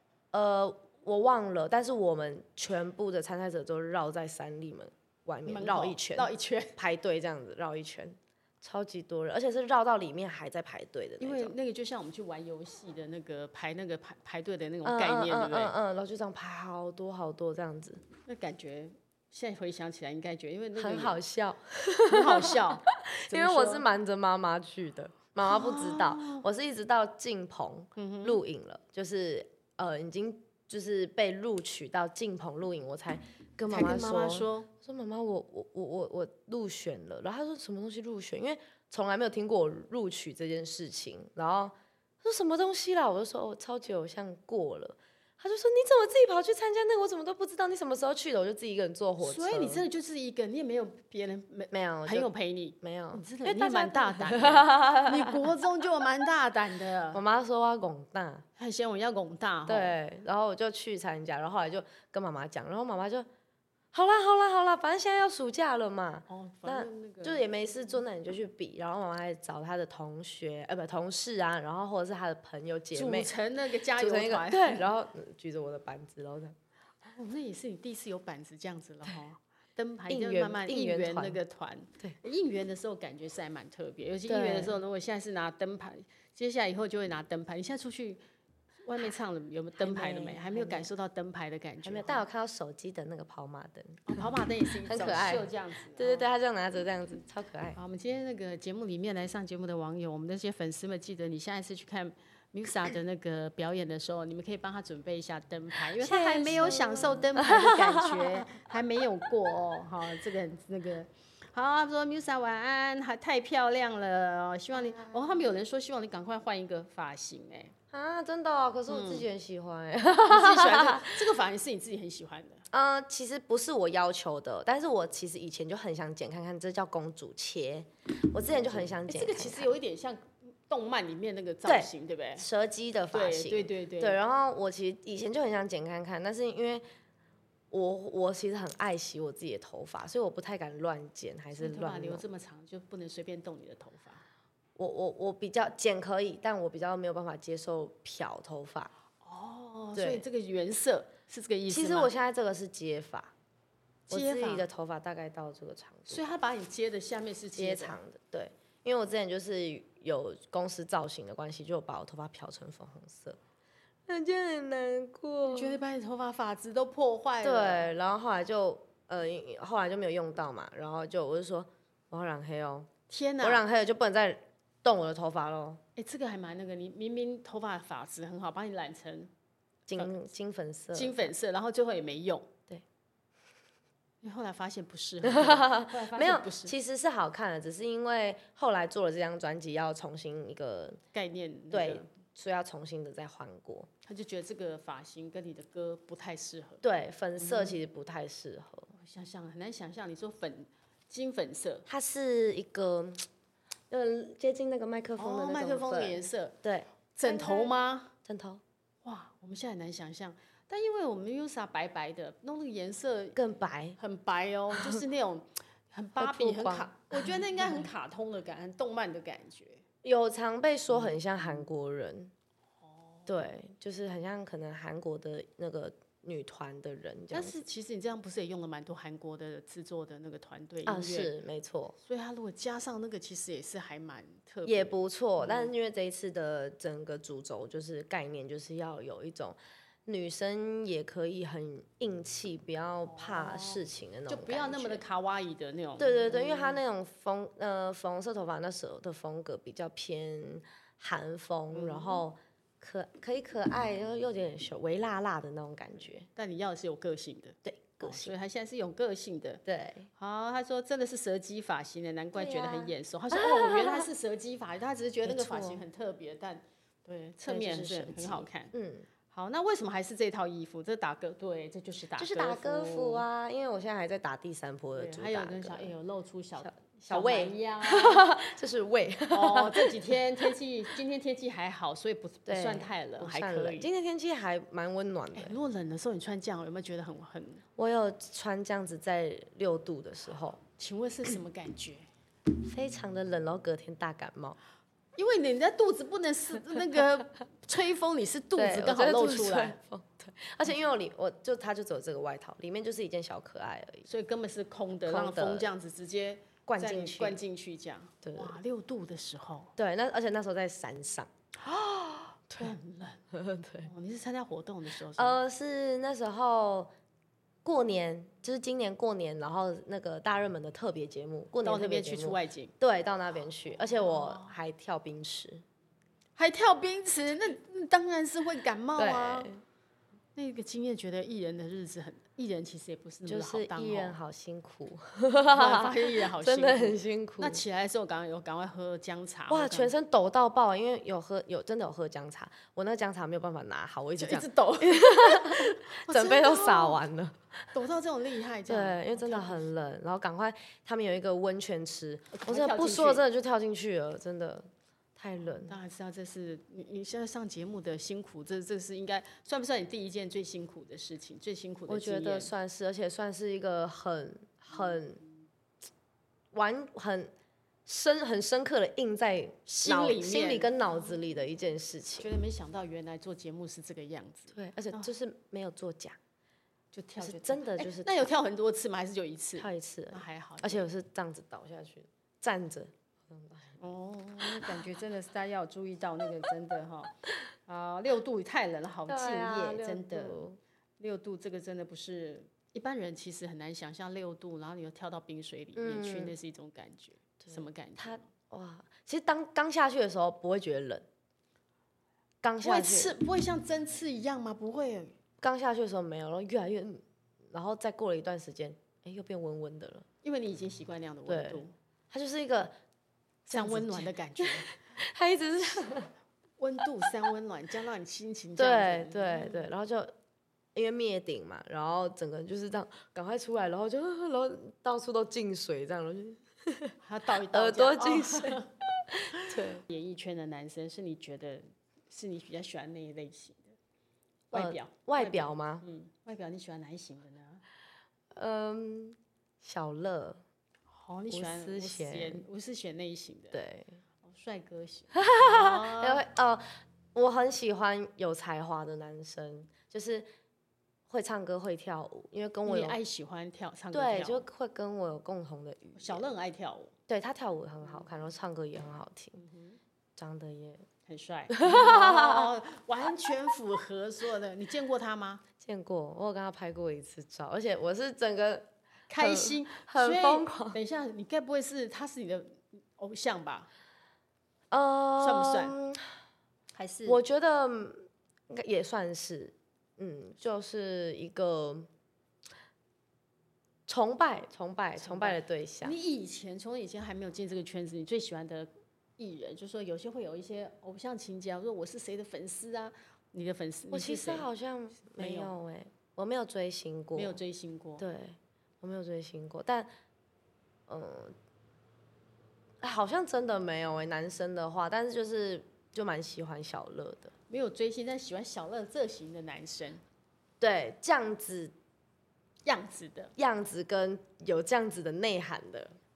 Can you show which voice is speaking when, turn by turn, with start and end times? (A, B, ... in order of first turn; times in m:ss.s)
0:00.3-0:11.6 A
0:05.4-0:06.7 B
0:11.2-0:15.7 B
0:14.8-0:18.0 A
0:18.2-0:21.2 B
0:20.8-0:49.8 A
0:22.1-0:23.8 B
0:25.4-0:26.4 B
0:28.0-0:28.4 B
0:33.7-0:34.7 B
0:49.2-0:57.2 B
0:51.7-0:52.3 A
0:52.8-0:55.4 A
0:57.1-0:58.4 A
0:58.6-1:00.0 B
0:59.7-1:03.3 A
1:03.9-1:13.3 A
1:06.3-1:07.4 B
1:12.9-1:14.9 B
1:14.0-1:16.6 A
1:17.0-1:28.2 B
1:20.1-1:21.4 A
1:24.3-1:24.8 A
1:28.8-1:32.2 B
1:29.8-1:30.9 A
1:31.8-1:37.8 A
1:34.1-1:36.2 B
1:37.8-1:57.7 B
1:45.9-1:48.6 A
1:57.9-2:01.2 A
1:58.9-1:59.2 B
2:00.2-2:02.6 B
2:02.7-2:09.7 A
2:08.6-2:12.4 B
2:11.7-2:16.8 A
2:13.1-2:14.2 B
2:17.7-2:22.2 A
2:21.5-2:24.2 B
2:24.8-2:28.9 A
2:29.2-2:32.1 B
2:29.9-2:30.2 A
2:31.7-2:33.3 A
2:34.1-2:34.7 B
2:34.1-2:36.2 A
2:36.1-2:38.0 B
2:37.6-2:43.4 A
2:44.1-2:45.8 A
2:45.4-2:47.9 B
2:47.4-2:52.9 A
2:53.1-2:53.6 B
2:53.4-2:55.8 A
2:56.0-2:59.3 B
2:59.9-3:01.3 A
3:00.9-3:02.5 B
3:04.2-3:06.7 B
3:05.2-3:11.0 A
3:11.1-3:12.1 B
3:11.7-3:13.9 A
3:14.0-3:16.8 B
3:16.8-3:18.9 A
3:17.4-3:17.8 B
3:18.9-3:21.8 B
3:21.9-3:23.3 A
3:23.9-3:27.7 A
3:25.2-3:26.6 B
3:27.1-3:28.1 B
3:28.2-3:28.6 A
3:29.0-3:33.4 B
3:33.4-3:34.0 A
3:34.0-3:39.8 B
3:34.7-3:35.0 A
3:36.2-3:37.7 A
3:40.0-3:42.3 A
3:40.9-3:41.7 B
3:42.8-3:43.3 B
3:43.3-3:47.6 A
3:47.3-3:51.3 B
3:50.8-3:52.0 A
3:52.0-3:55.7 B
3:54.6-4:05.0 A
4:03.1-4:06.8 B
4:06.0-4:16.3 A
4:11.7-4:12.2 B
4:16.3-4:19.6 B
4:17.6-4:18.3 A
4:19.7-4:20.1 A
4:20.2-4:28.7 B
4:22.3-4:24.1 A
4:25.2-4:25.8 A
4:27.4-4:29.1 A
4:29.3-4:33.2 B
4:32.2-4:35.9 A
4:34.9-4:38.3 B
4:36.6-4:40.2 A
4:39.3-4:43.9 B
4:42.4-4:45.6 A
4:45.3-4:47.6 B
4:47.8-4:50.6 A
4:50.8-4:52.1 B
4:52.6-4:54.6 A
4:55.2-4:59.8 B
4:58.6-5:04.1 A
5:04.1-5:09.7 B
5:05.1-5:05.7 A
5:06.7-5:07.4 A
5:08.2-5:08.6 A
5:09.8-5:11.3 A
5:11.6-5:13.2 B
5:13.3-5:13.9 A
5:13.8-5:15.4 B
5:15.2-5:16.9 A
5:17.6-5:25.6 A
5:21.6-5:22.7 B
5:24.0-5:24.5 B
5:26.4-5:29.5 B
5:29.0-5:29.6 A
5:30.4-5:34.2 B
5:33.3-5:37.6 A
5:35.5-5:39.9 B
5:39.5-5:47.7 A
5:44.2-5:47.0 B
5:47.7-5:49.7 B
5:48.7-5:55.8 A
5:52.3-5:53.2 B
5:55.6-6:02.5 B
6:01.9-6:05.2 A
6:06.5-6:07.3 A
6:07.8-6:12.3 A
6:09.7-6:10.7 B
6:12.2-6:15.1 B
6:14.5-6:16.2 A
6:16.9-6:20.9 B
6:17.2-6:18.2 A
6:19.6-6:23.8 A
6:23.8-6:27.2 B
6:27.7-6:30.4 B
6:29.1-6:30.6 A
6:31.0-6:38.2 B
6:35.8-6:36.3 A
6:37.4-6:41.1 A
6:42.4-6:43.1 A
6:42.6-6:45.2 B
6:45.4-6:50.1 A
6:50.2-6:51.7 B
6:51.3-6:52.7 A
6:53.5-6:56.1 A
6:53.5-6:54.7 B
6:56.6-6:59.7 B
6:58.6-7:00.1 A
7:00.7-7:07.0 A
7:07.0-7:08.7 B
7:07.5-7:09.8 A
7:09.4-7:13.7 B
7:14.5-7:17.6 B
7:14.5-7:15.8 A
7:18.3-7:20.4 A
7:20.9-7:23.6 B
7:21.3-7:22.4 A
7:23.5-7:24.0 A
7:24.2-7:26.2 B
7:25.1-7:30.3 A
7:31.1-7:33.0 A
7:32.7-7:34.4 B
7:33.9-7:36.2 A
7:36.0-7:36.9 B
7:37.1-7:39.4 A
7:39.4-7:39.8 B
7:40.2-7:40.8 A
7:41.1-7:45.4 B
7:41.5-7:42.5 A
7:45.6-7:50.8 A
7:49.1-7:53.7 B
7:54.7-7:56.0 A
7:55.2-7:55.8 B
7:56.7-7:57.2 B
7:57.1-8:01.9 A
8:03.9-8:05.9 A
8:05.0-8:14.5 B
8:13.9-8:17.4 A
8:15.1-8:15.5 B
8:17.1-8:18.0 B
8:18.0-8:19.9 A
8:20.9-8:21.3 A
8:22.8-8:27.3 A
8:27.5-8:30.0 B
8:30.6-8:31.7 A
8:32.6-8:33.3 B
8:33.4-8:36.0 A